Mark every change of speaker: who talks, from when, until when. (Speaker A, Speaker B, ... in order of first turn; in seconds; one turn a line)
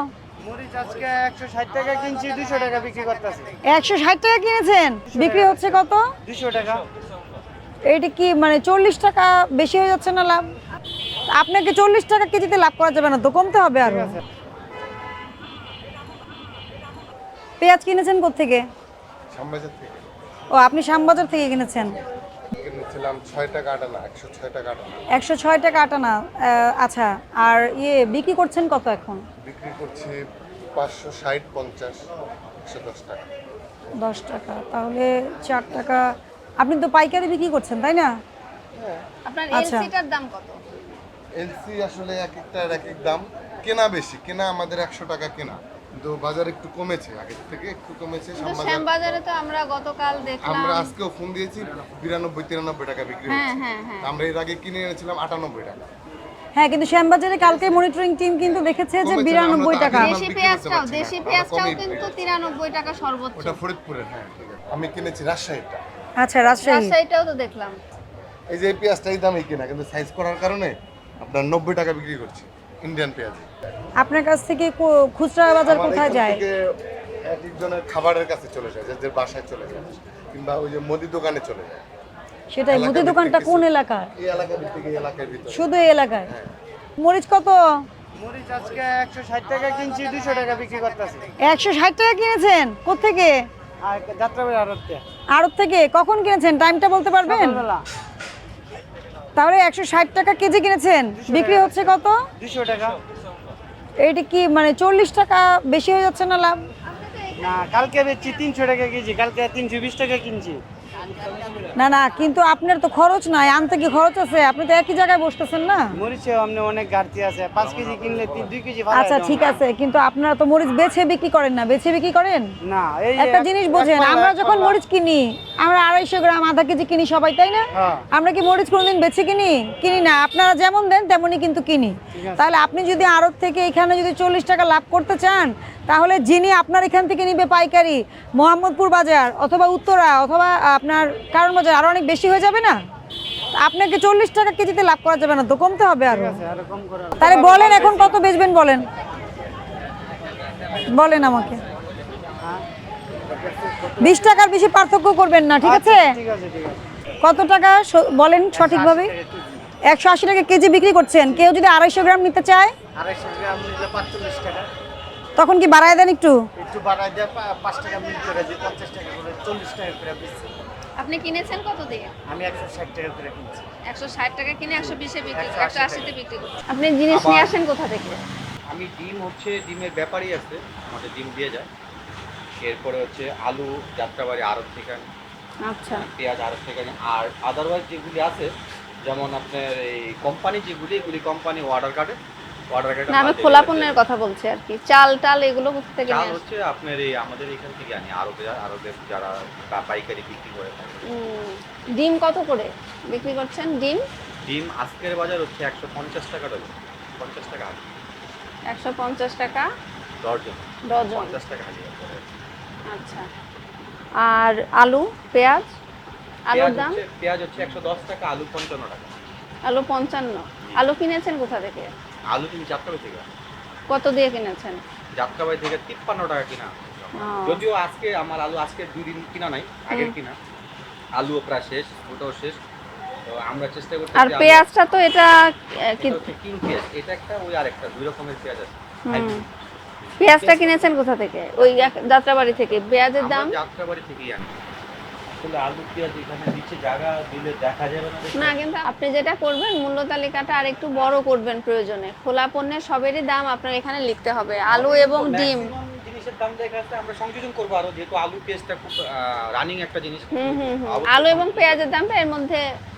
Speaker A: 0.4-3.5
Speaker B: 3.7-6.0
Speaker A: 5.1-6.8
Speaker B: 7.9-10.4
Speaker B: 11.3-14.2
Speaker A: 13.8-14.2
Speaker B: 17.6-18.6
Speaker C: 19.3-20.1
Speaker B: 20.6-21.9
Speaker C: 22.5-25.0
Speaker B: 25.1-29.2
Speaker C: 29.4-30.2
Speaker C: 30.7-32.0
Speaker C: 32.6-33.2
Speaker B: 34.0-36.1
Speaker B: 36.6-38.1
Speaker C: 38.8-39.0
Speaker D: 39.2-40.6
Speaker B: 39.5-39.9
Speaker C: 41.4-48.9
Speaker D: 48.4-50.9
Speaker C: 50.4-55.9
Speaker D: 53.3-54.1
Speaker B: 56.5-60.1
Speaker C: 59.0-62.2
Speaker D: 59.9-63.6
Speaker C: 63.4-65.8
Speaker B: 66.2-66.9
Speaker D: 66.6-67.8
Speaker C: 68.5-73.5
Speaker B: 74.0-76.4
Speaker C: 75.7-76.6
Speaker C: 77.3-81.8
Speaker B: 82.5-84.1
Speaker C: 82.7-86.5
Speaker B: 85.5-86.3
Speaker B: 87.0-87.6
Speaker A: 88.2-91.3
Speaker B: 91.4-93.4
Speaker A: 93.8-95.0
Speaker B: 95.3-97.6
Speaker A: 97.2-97.8
Speaker B: 99.3-102.1
Speaker A: 101.2-103.0
Speaker B: 104.0-106.6
Speaker A: 107.4-110.6
Speaker B: 111.8-115.9
Speaker A: 115.9-119.6
Speaker B: 118.9-122.5
Speaker A: 122.6-124.8
Speaker B: 123.2-142.8
Speaker A: 127.7-128.0
Speaker A: 132.1-132.4
Speaker B: 143.6-146.4
Speaker A: 146.1-148.2
Speaker B: 147.2-148.9
Speaker B: 150.9-151.6
Speaker A: 153.3-154.2
Speaker B: 154.0-156.1
Speaker A: 155.6-156.8
Speaker B: 157.2-159.1
Speaker A: 158.5-159.7
Speaker B: 159.9-162.7
Speaker A: 163.0-164.7
Speaker B: 165.4-166.3
Speaker A: 166.6-170.5
Speaker D: 171.0-172.1
Speaker A: 172.3-173.6
Speaker D: 173.9-178.2
Speaker A: 174.8-176.1
Speaker E: 177.1-177.5
Speaker E: 178.7-181.7
Speaker E: 182.6-185.1
Speaker D: 185.7-186.1
Speaker E: 185.9-188.5
Speaker E: 189.0-192.2
Speaker E: 192.7-194.0
Speaker D: 193.1-196.4
Speaker E: 196.0-201.0
Speaker D: 201.0-204.0
Speaker E: 204.4-207.9
Speaker D: 208.7-209.7
Speaker E: 210.2-212.3
Speaker D: 210.9-211.3
Speaker D: 212.9-213.2
Speaker D: 214.2-215.7
Speaker D: 216.5-217.0
Speaker E: 216.5-219.1
Speaker D: 219.6-221.9
Speaker E: 222.3-223.3
Speaker D: 223.9-224.8
Speaker E: 225.1-230.4
Speaker D: 227.1-227.6
Speaker E: 231.2-232.6
Speaker E: 233.2-234.7
Speaker D: 234.2-235.3
Speaker D: 235.9-236.2
Speaker E: 236.0-240.9
Speaker D: 239.1-239.4
Speaker D: 240.2-243.5
Speaker E: 241.6-244.6
Speaker E: 245.4-248.5
Speaker D: 248.3-255.7
Speaker E: 254.7-261.9
Speaker D: 260.3-262.6